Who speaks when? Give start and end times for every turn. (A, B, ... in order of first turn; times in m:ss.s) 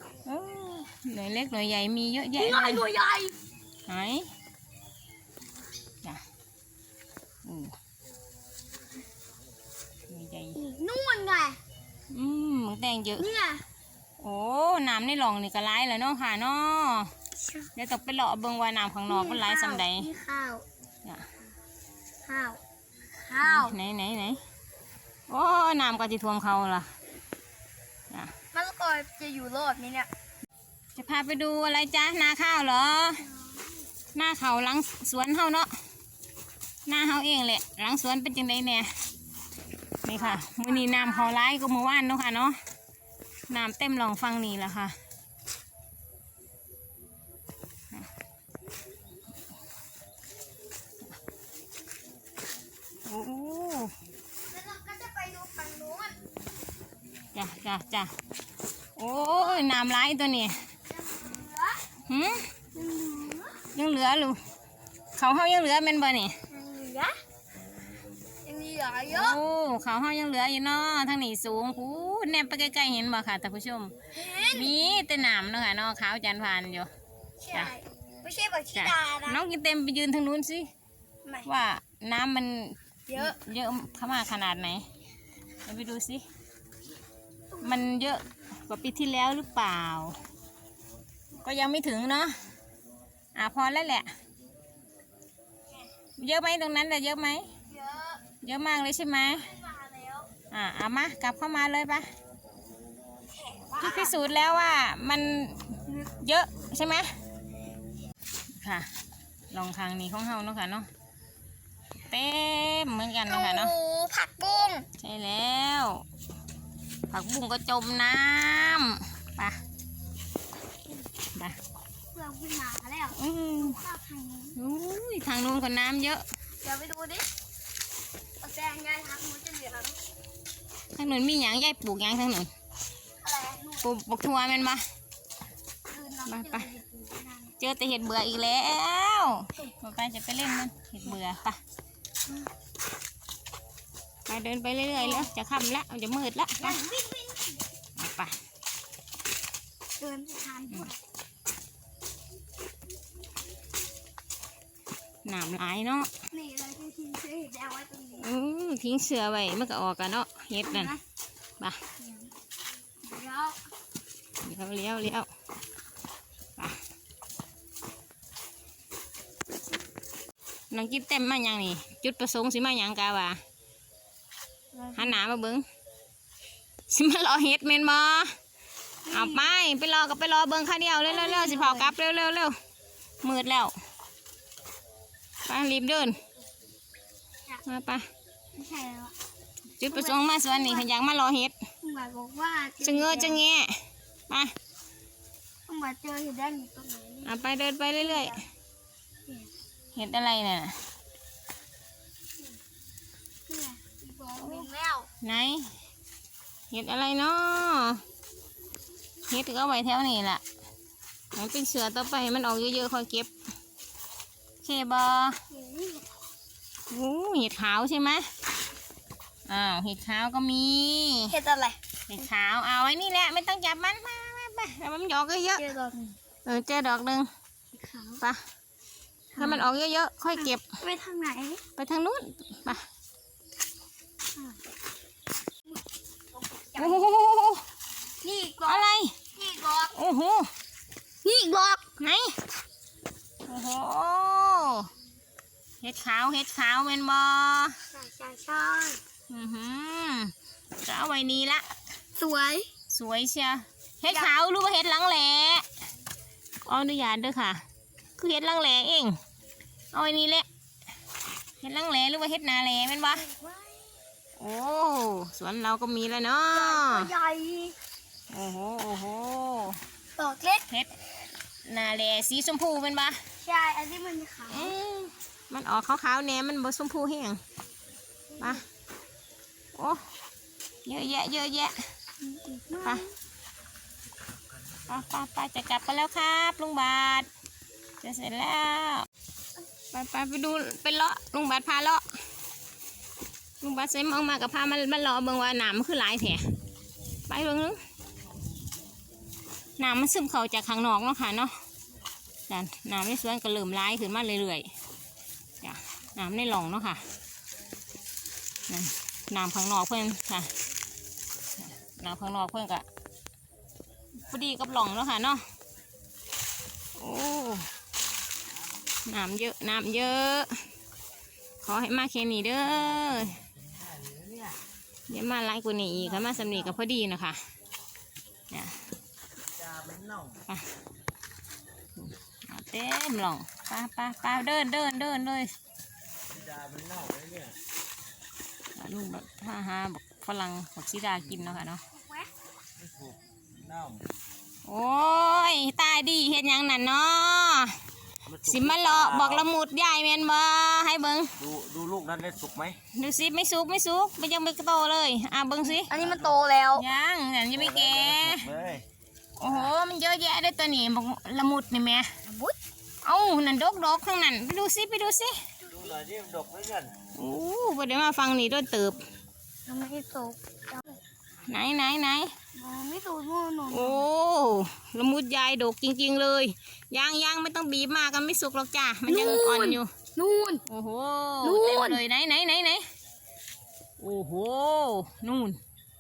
0:00.3-0:02.8 A
0:02.4-0:03.4 B
0:03.9-0:04.3 A
0:07.4-0:07.7 A
0:10.1-0:10.6 A
0:10.6-0:11.6 B
0:12.1-0:13.3 A
0:13.2-0:13.6 B
0:14.2-0:17.1 A
0:17.4-0:17.7 B
0:17.8-0:20.1 A
0:19.1-0:20.6 B
0:22.3-0:22.6 B
0:23.2-0:23.8 B
0:23.4-0:24.4 A
0:25.3-0:26.9 A
0:28.5-0:30.1 B
0:31.0-0:33.2 A
0:33.2-0:33.8 B
0:34.1-0:35.7 A
0:36.9-0:38.9 A
0:40.0-0:42.6 A
0:40.1-0:41.4 B
0:43.5-0:45.0 A
0:53.1-0:54.0 A
0:54.4-0:56.2 B
0:57.3-0:58.1 A
0:59.0-1:00.7 A
0:59.4-0:59.8 B
1:00.9-1:01.8 B
1:02.1-1:02.5 A
1:02.7-1:03.6 B
1:03.7-1:04.4 A
1:05.2-1:06.4 A
1:06.5-1:07.2 B
1:08.4-1:09.4 B
1:09.1-1:16.9 A
1:14.1-1:14.7 B
1:17.4-1:19.4 B
1:18.8-1:20.7 A
1:21.4-1:24.9 A
1:23.1-1:23.4 B
1:25.7-1:26.2 A
1:27.5-1:27.8 B
1:27.6-1:30.2 A
1:31.4-1:32.4 A
1:33.4-1:34.1 A
1:36.2-1:37.5 A
1:37.7-1:38.2 B
1:38.4-1:39.5 A
1:39.4-1:40.3 B
1:40.5-1:42.1 A
1:43.3-1:44.2 B
1:43.8-1:47.1 A
1:45.9-1:46.1 B
1:48.6-1:48.9 A
1:49.5-1:50.9 A
1:52.1-1:53.7 A
1:53.3-1:54.9 B
1:55.0-1:56.0 A
1:57.1-1:59.6 A
2:02.1-2:04.6 B
2:03.2-2:03.8 A
2:04.6-2:06.2 A
2:06.6-2:07.3 B
2:08.4-2:10.0 B
2:11.0-2:12.5 A
2:13.2-2:13.9 B
2:13.8-2:14.8 A
2:15.9-2:17.6 B
2:16.3-2:16.7 A
2:17.6-2:21.6 A
2:24.3-2:26.8 A
2:24.9-2:25.3 B
2:26.6-2:27.6 B
2:28.0-2:28.4 A
2:30.0-2:31.0 B
2:35.2-2:36.1 A
2:36.3-2:38.3 B
2:38.2-2:40.9 A
2:40.6-2:41.0 B
2:42.0-2:42.3 B
2:43.0-2:43.6 B
2:44.4-2:45.3 A
2:50.7-2:53.4 A
2:54.7-2:55.2 B
2:55.0-2:55.6 A
2:56.9-2:58.4 A
2:59.1-2:59.6 B
2:59.1-3:02.5 A
3:01.1-3:02.0 B
3:03.2-3:03.7 A
3:05.4-3:06.2 A
3:07.6-3:08.1 A
3:08.6-3:09.1 B
3:09.8-3:11.5 A
3:09.9-3:10.9 B
3:11.8-3:13.4 B
3:12.8-3:14.5 A
3:15.7-3:18.4 B
3:17.2-3:18.4 A
3:20.0-3:20.8 A
3:23.5-3:25.1 B
3:24.4-3:24.7 A
3:25.2-3:25.7 A
3:26.7-3:28.0 A
3:29.3-3:30.4 A
3:31.4-3:33.3 A
3:34.6-3:35.4 A
3:35.5-3:36.2 B
3:36.9-3:38.3 A
3:39.5-3:41.4 A
3:41.3-3:41.8 B
3:42.1-3:45.6 A
3:45.6-3:46.2 B
3:46.4-3:47.3 A
3:47.7-3:48.2 B
3:49.3-3:49.7 B
3:49.4-3:50.7 A
3:50.4-3:51.6 B
3:51.8-3:52.8 A
3:55.7-3:57.1 B
3:56.8-3:57.6 A
3:58.2-4:00.0 B
3:58.7-3:59.2 A
3:59.9-4:00.5 A
4:01.2-4:01.8 B
4:02.0-4:02.4 A
4:03.5-4:04.9 A
4:05.8-4:07.8 A
4:07.9-4:09.0 B
4:09.3-4:11.8 A
4:12.2-4:12.7 B
4:12.9-4:15.7 A
4:14.1-4:14.4 B
4:16.7-4:17.6 A
4:18.2-4:19.2 A
4:19.9-4:20.5 A
4:21.6-4:23.2 A
4:23.1-4:23.9 B
4:24.4-4:27.1 A
4:26.5-4:27.8 B
4:28.3-4:29.8 A
4:30.2-4:30.7 B
4:31.6-4:33.2 A
4:33.4-4:34.7 B
4:34.5-4:37.4 A
4:38.3-4:38.6 B
4:39.8-4:40.0 A
4:40.8-4:41.8 A
4:42.2-4:43.1 B
4:44.9-4:47.3 A
4:48.0-4:49.1 A
4:49.9-4:52.1 A
4:53.6-4:56.4 A
4:57.3-4:57.8 A
4:59.8-5:01.6 A
5:02.5-5:04.7 A
5:05.6-5:07.0 A
5:08.7-5:10.5 A
5:11.6-5:12.8 A
5:14.2-5:15.4 A
5:17.0-5:17.7 A
5:19.1-5:20.7 A
5:21.6-5:23.4 A
5:25.1-5:27.4 A
5:28.5-5:28.8 A
5:32.0-5:35.5 A
5:36.6-5:37.4 C
5:38.8-5:41.8 A
5:41.9-5:42.3 B
5:44.7-5:47.8 A
5:48.3-5:51.5 A
5:51.7-5:52.7 C
5:52.9-5:56.0 A
5:55.9-5:56.8 B
5:56.8-5:58.6 A
5:59.4-6:02.1 A
6:02.3-6:02.6 B
6:03.0-6:05.4 A
6:05.6-6:06.0 B
6:06.2-6:06.8 C
6:07.1-6:09.0 A
6:09.7-6:11.0 B
6:11.4-6:12.3 A
6:12.6-6:14.1 B
6:13.7-6:19.9 A
6:19.1-6:20.6 B
6:20.7-6:22.8 A
6:21.4-6:22.0 B
6:24.0-6:25.6 A